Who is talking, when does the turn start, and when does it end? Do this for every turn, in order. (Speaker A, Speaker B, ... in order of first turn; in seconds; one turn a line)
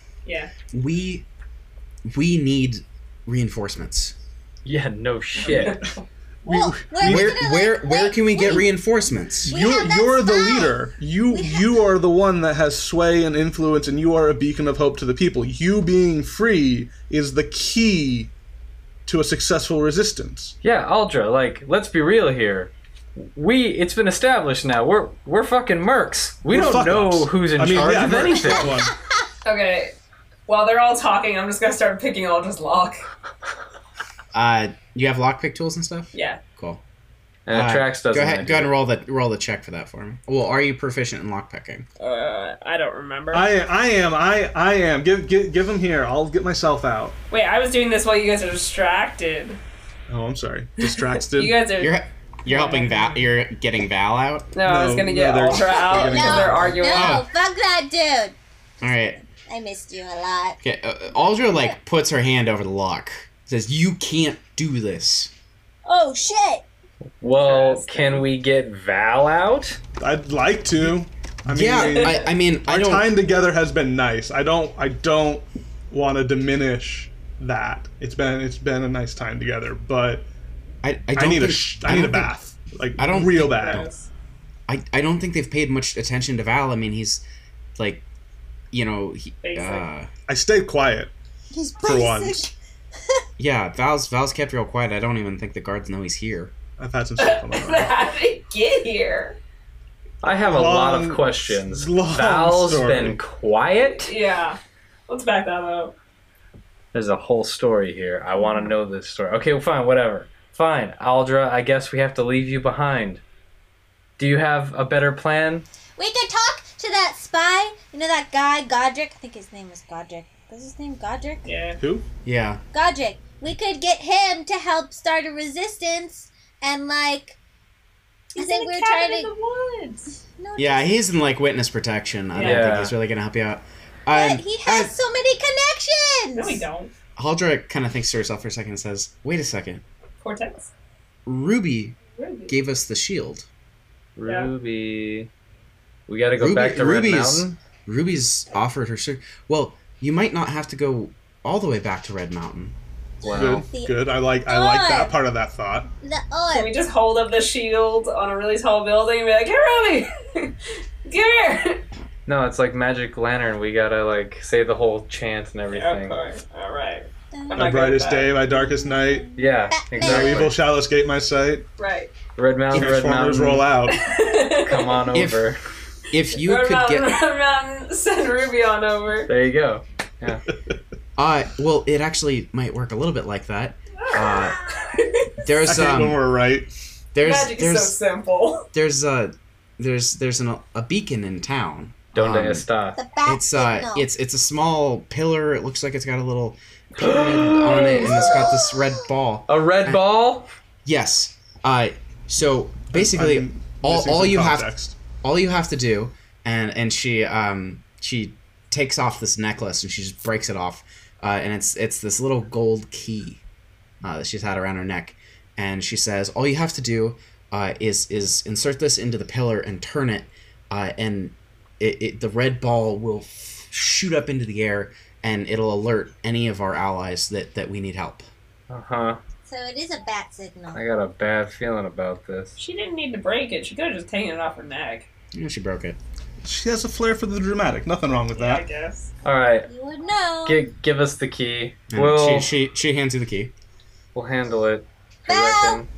Speaker A: 0.2-0.5
Speaker B: 0.7-1.2
Speaker B: 2.1-4.1
Speaker C: 4.6-5.9
Speaker A: 5.4-5.8
Speaker D: 6.4-7.4
Speaker E: 6.5-8.7
Speaker B: 7.0-9.5
Speaker D: 9.4-18.3
Speaker E: 9.4-10.8
Speaker E: 11.3-11.7
Speaker D: 19.1-20.6
Speaker C: 20.6-28.7
Speaker D: 26.5-28.9
Speaker A: 29.4-29.9
Speaker A: 30.5-33.0
Speaker B: 34.3-36.8
Speaker A: 36.1-36.4
Speaker C: 37.5-38.7
Speaker B: 37.5-41.9
Speaker A: 42.0-43.5
Speaker D: 43.3-47.2
Speaker A: 47.3-49.6
Speaker D: 50.1-51.6
Speaker A: 50.8-53.1
Speaker B: 51.8-54.5
Speaker A: 54.5-57.2
Speaker D: 54.6-57.0
Speaker E: 55.8-58.4
Speaker B: 56.9-57.2
Speaker B: 58.8-59.2
Speaker E: 59.5-60.6
Speaker B: 60.6-65.3
Speaker E: 61.5-61.8
Speaker E: 65.8-66.6
Speaker C: 67.2-69.8
Speaker A: 67.4-68.2
Speaker D: 70.0-80.3
Speaker B: 71.5-73.2
Speaker A: 71.8-72.2
Speaker B: 80.8-82.3
Speaker D: 81.1-83.9
Speaker B: 83.0-83.9
Speaker A: 83.4-84.1
Speaker B: 84.7-87.2
Speaker B: 87.8-88.0
Speaker B: 88.7-90.1
Speaker A: 89.4-89.8
Speaker D: 90.3-91.1
Speaker E: 91.5-92.5
Speaker D: 91.8-92.5
Speaker B: 93.4-96.5
Speaker D: 96.8-98.0
Speaker A: 97.2-99.4
Speaker C: 100.2-104.2
Speaker D: 100.3-103.2
Speaker A: 103.9-105.9
Speaker C: 106.9-113.2
Speaker A: 108.4-108.7
Speaker C: 114.2-115.7
Speaker E: 116.0-121.5
Speaker A: 121.4-121.8
Speaker D: 121.8-122.0
Speaker B: 122.2-122.6
Speaker E: 122.7-127.4
Speaker E: 128.3-129.3
Speaker A: 128.3-130.1
Speaker E: 130.4-131.0
Speaker B: 130.6-134.9
Speaker A: 132.3-132.7
Speaker C: 132.3-132.9
Speaker E: 134.1-136.7
Speaker A: 136.3-136.9
Speaker B: 137.2-139.8
Speaker A: 140.2-140.7
Speaker B: 141.2-142.0
Speaker A: 142.2-142.5
Speaker B: 142.5-143.4
Speaker C: 144.2-145.3
Speaker C: 146.1-147.6
Speaker B: 146.3-152.7
Speaker C: 153.2-153.7
Speaker D: 153.3-155.9
Speaker E: 153.3-155.2
Speaker E: 156.0-156.7
Speaker A: 156.5-161.8
Speaker C: 162.2-166.2
Speaker A: 165.7-168.4
Speaker E: 167.3-167.8
Speaker D: 167.5-169.3
Speaker E: 168.7-170.5
Speaker C: 169.4-170.6
Speaker D: 170.0-171.7
Speaker A: 171.8-172.1
Speaker C: 172.3-173.7
Speaker D: 172.7-174.0
Speaker A: 173.9-175.0
Speaker C: 174.5-175.6
Speaker B: 175.1-175.5
Speaker B: 176.1-177.1
Speaker A: 176.3-179.3
Speaker C: 179.3-180.4
Speaker B: 181.2-184.6
Speaker A: 184.0-185.4
Speaker B: 185.4-186.2
Speaker D: 185.6-186.7
Speaker B: 187.1-188.0
Speaker A: 187.2-188.7
Speaker B: 188.7-192.7
Speaker C: 192.1-193.0
Speaker E: 192.9-194.1
Speaker B: 193.2-200.0
Speaker C: 197.0-198.1
Speaker A: 197.6-198.5
Speaker E: 197.8-198.8
Speaker C: 199.5-200.5
Speaker B: 200.8-213.4
Speaker D: 202.9-204.9
Speaker B: 214.0-228.2
Speaker C: 228.7-229.2
Speaker E: 229.4-230.8
Speaker C: 230.7-232.6
Speaker A: 232.6-235.1
Speaker B: 235.3-236.0
Speaker D: 236.4-238.7
Speaker A: 238.3-239.1
Speaker C: 239.2-239.7
Speaker E: 239.7-240.6
Speaker C: 240.4-242.5
Speaker B: 241.9-243.5
Speaker C: 244.1-245.9
Speaker E: 245.3-245.8